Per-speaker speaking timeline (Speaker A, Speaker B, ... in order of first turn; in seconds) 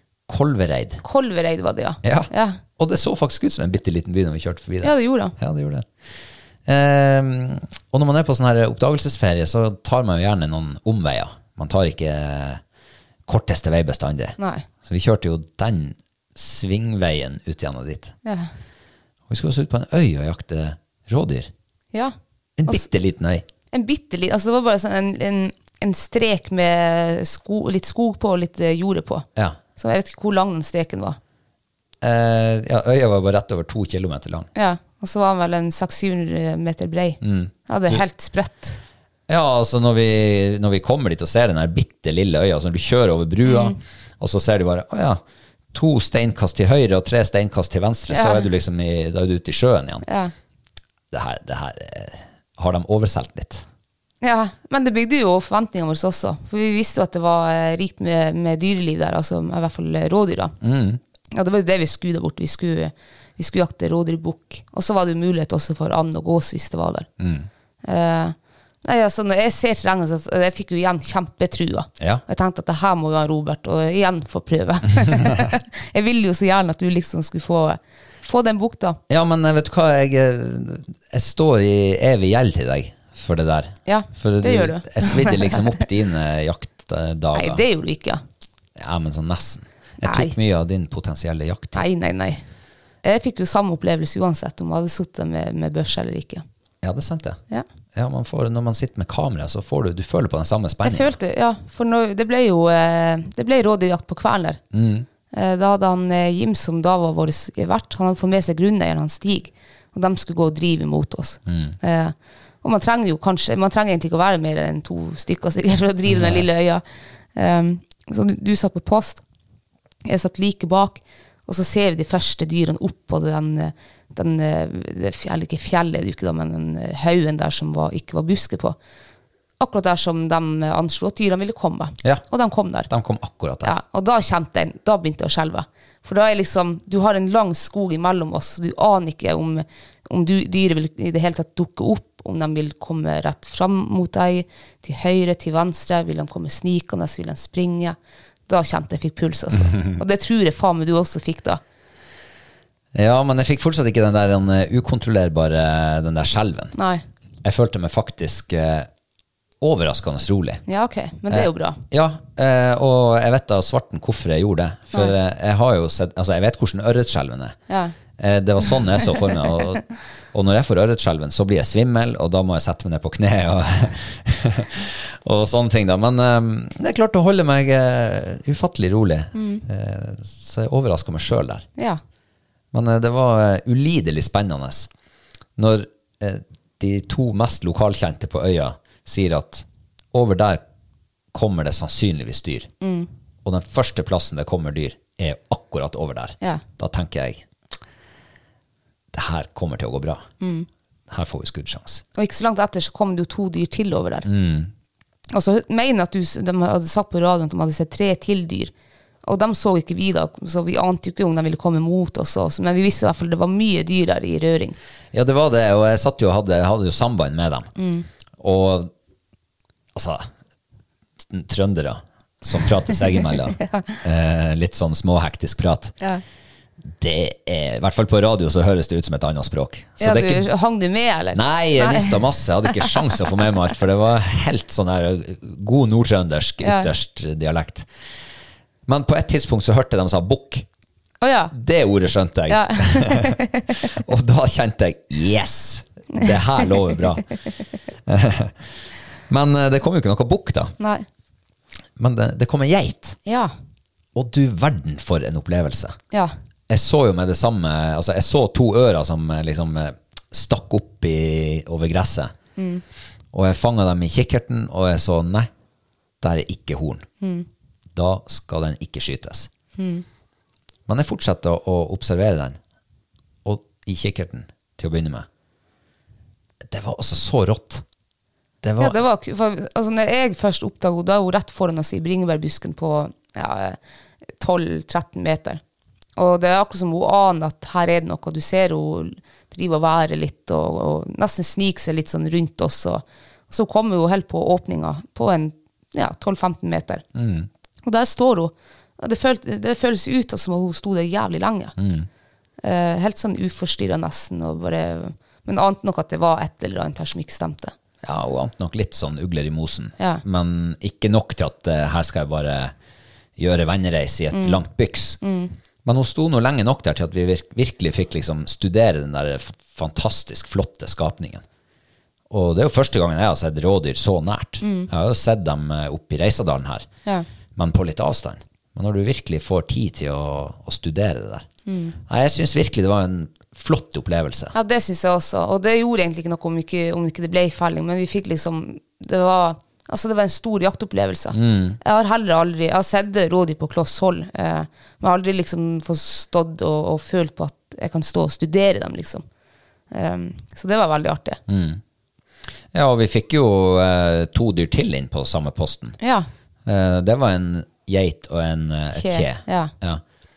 Speaker A: 0.3-1.0, 2.0-5.9, 6.7-12.6, 13.3-18.1, 19.3-21.5, 22.6-23.5, 32.0-34.5, 37.2-38.0, 39.3-45.2, 45.7-50.1, 51.1-53.7, 60.6-61.0, 67.2-67.5, 75.0-75.5, 79.1-87.6, 88.8-91.9, 96.8-97.4, 98.0-101.2, 104.7-105.1, 111.5-111.8, 116.1-116.5, 132.9-133.8, 152.9-156.8, 157.4-158.9, 159.6-160.6, 161.3-167.6, 168.2-181.7, 182.7-184.9, 185.6-190.6, 191.3-192.7, 193.4-197.4, 199.1-200.3, 201.1-202.0, 204.2-204.7, 215.1-217.7, 218.4-218.9, 219.9-220.3, 221.3-225.9, 226.8-230.5, 231.3-237.9, 238.9-240.7, 241.5-247.2, 248.1-248.7, 249.3-250.7, 252.0-253.2, 254.2-256.0, 256.7-262.3, 263.3-265.5, 266.2-267.1, 267.9-269.5, 270.9-272.6, 273.4-275.3, 276.6-277.9, 278.6-279.0, 297.1-297.5, 301.8-302.1, 308.0-312.7, 313.4-315.2, 315.9-321.4, 322.3-326.9, 327.6-331.5, 332.1-334.5, 341.3-341.8, 351.5-351.8, 352.7-356.0, 356.7-360.0
Speaker B: 1.0-2.6, 4.8-5.4, 14.4-14.7, 18.2-18.5, 23.7-31.2, 34.5-38.8, 43.5-43.8, 48.1-48.5, 50.0-50.3, 54.2-60.5, 61.3-67.1, 67.8-79.0, 83.9-85.7, 87.3-88.2, 90.0-90.3, 91.8-92.4, 93.0-96.4, 100.8-104.6, 105.3-116.8, 117.3-119.2, 120.1-128.8, 129.6-132.9, 133.6-148.0, 148.5-151.6, 156.8-157.0, 160.7-161.8, 167.7-167.9, 179.3-179.6, 192.8-193.1, 200.4-200.7, 202.2-204.3, 205.3-208.7, 209.2-214.8, 217.8-218.1, 223.6-224.0, 230.0-232.2, 236.6-236.9, 241.2-241.5, 242.5-243.9, 246.1-246.7, 250.8-251.1, 253.3-253.5, 262.6-262.8, 267.2-267.5, 269.8-270.1, 278.8-283.8, 284.4-285.6, 286.2-297.0, 297.8-301.8, 302.6-307.7, 314.3-314.6, 315.2-315.5, 324.6-324.9, 331.7-332.0, 334.5-349.2, 349.9-351.4, 356.0-356.3, 358.9-359.7